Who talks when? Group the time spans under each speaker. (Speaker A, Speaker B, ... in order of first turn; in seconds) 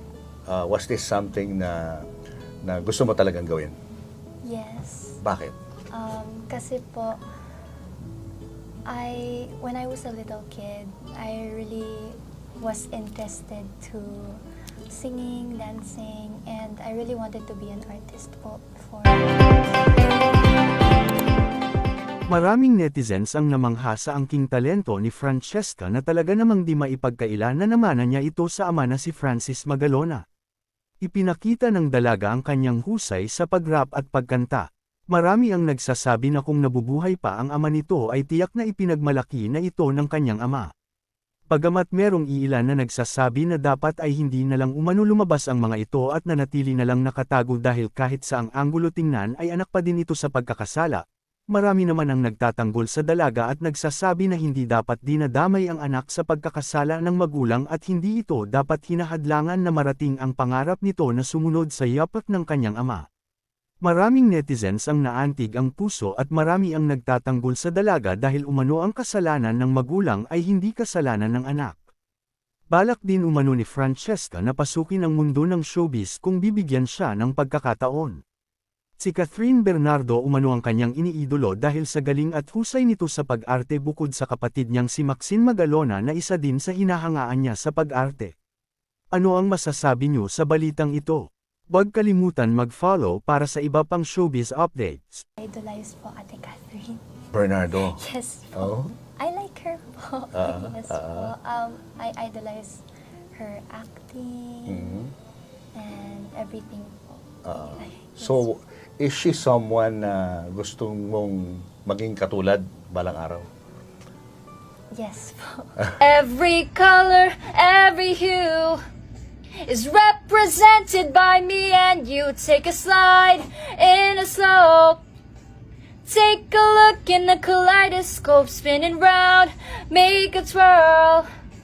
Speaker A: 0.5-2.0, 2.6-3.7, 5.2-5.5, 97.3-98.0, 98.5-98.9, 100.3-101.3, 104.7-105.1, 107.5-113.5
Speaker B: 4.4-5.2, 5.9-7.2, 8.9-20.1, 95.4-97.0, 97.7-102.8, 103.3-105.0, 105.7-108.5, 114.9-116.0
Speaker C: 22.3-30.2, 31.0-40.7, 41.5-63.0, 63.8-71.8, 72.7-78.2, 79.0-88.3, 89.1-95.2
Speaker D: 116.0-118.8, 119.6-125.0, 126.0-131.2